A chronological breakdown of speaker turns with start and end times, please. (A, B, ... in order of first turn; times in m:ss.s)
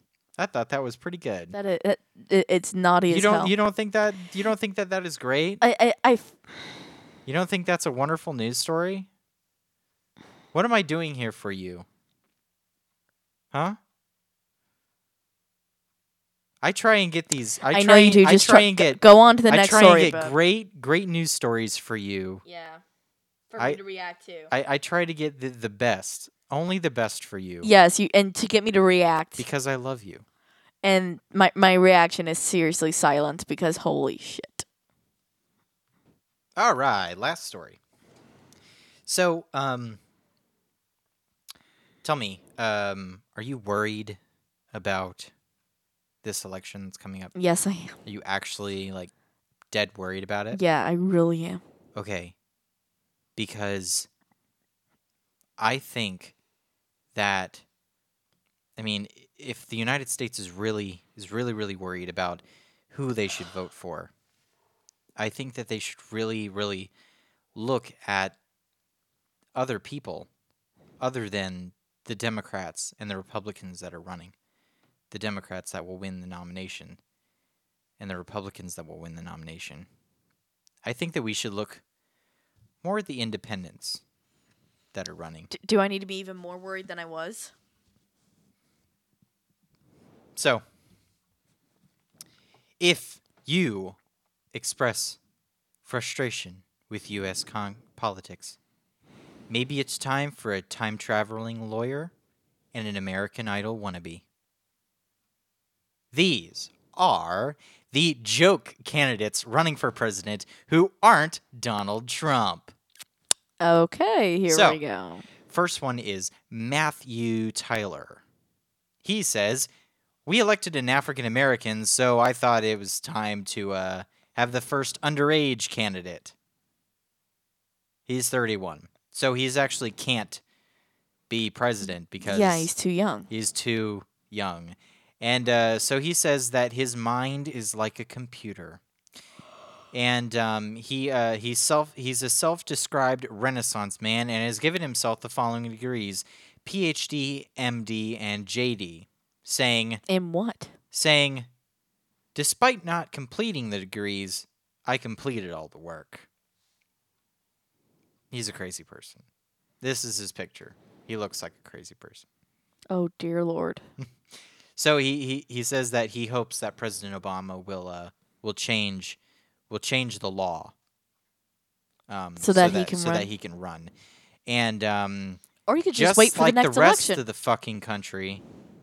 0:00.4-0:01.6 A
0:01.5-0:03.5 B
0:03.1-0:05.6 A
0:05.6-0:06.3 B
0:07.3-0:09.1 A
0:10.5-0:11.9 A
0:13.5-0:13.8 A
0:16.6-0:22.4 A
0:17.7-0:20.3 B
0:22.4-0:22.8 B
0:23.5-0:24.5 B
0:24.5-0:27.7 A
0:27.6-0:29.5 B
0:29.4-0:30.2 A
0:30.8-0:34.7 B
0:36.6-0:37.8 A
0:39.1-0:40.0 A
0:42.0-0:44.2 A
0:44.7-0:45.3 A
0:46.2-0:47.3 A
0:47.4-0:48.0 B
0:48.0-0:49.1 A
0:49.7-0:50.6 A
0:50.5-0:51.6 B
0:52.0-0:52.3 A
0:53.4-0:54.1 A
0:55.6-0:56.4 A
0:57.1-0:57.6 A
0:58.8-1:04.1 A
1:05.2-1:06.9 A
1:07.6-1:08.4 A
1:09.6-1:10.3 A
1:11.0-1:14.3 A
1:15.1-1:17.0 A
1:18.0-1:19.9 A
1:20.8-1:21.8 A
1:22.8-1:24.0 A
1:24.9-1:25.5 A
1:25.5-1:27.5 B
1:30.4-1:30.6 A
1:32.8-1:34.0 A
1:34.5-1:35.2 A
1:35.8-1:38.6 A
1:39.5-1:42.1 A
1:42.7-1:44.2 A
1:46.1-1:52.7 A
1:53.6-1:55.2 B
1:54.5-1:54.8 A
1:55.5-1:58.2 A
1:59.0-1:59.7 A
2:00.3-2:06.3 A
2:08.1-2:10.4 A
2:11.3-2:12.7 A
2:12.2-2:13.3 B
2:13.3-2:18.8 A
2:19.9-2:30.0 A
2:30.1-2:30.7 B
2:30.9-2:31.5 A
2:32.4-2:36.3 A
2:38.3-2:39.2 A
2:39.8-2:42.2 A
2:42.9-2:43.8 B
2:44.8-2:49.2 A
2:49.7-2:50.7 A
2:52.1-2:53.9 A
2:52.4-2:53.3 B
2:54.5-2:55.4 A
2:55.7-2:57.2 B
2:55.9-2:58.4 A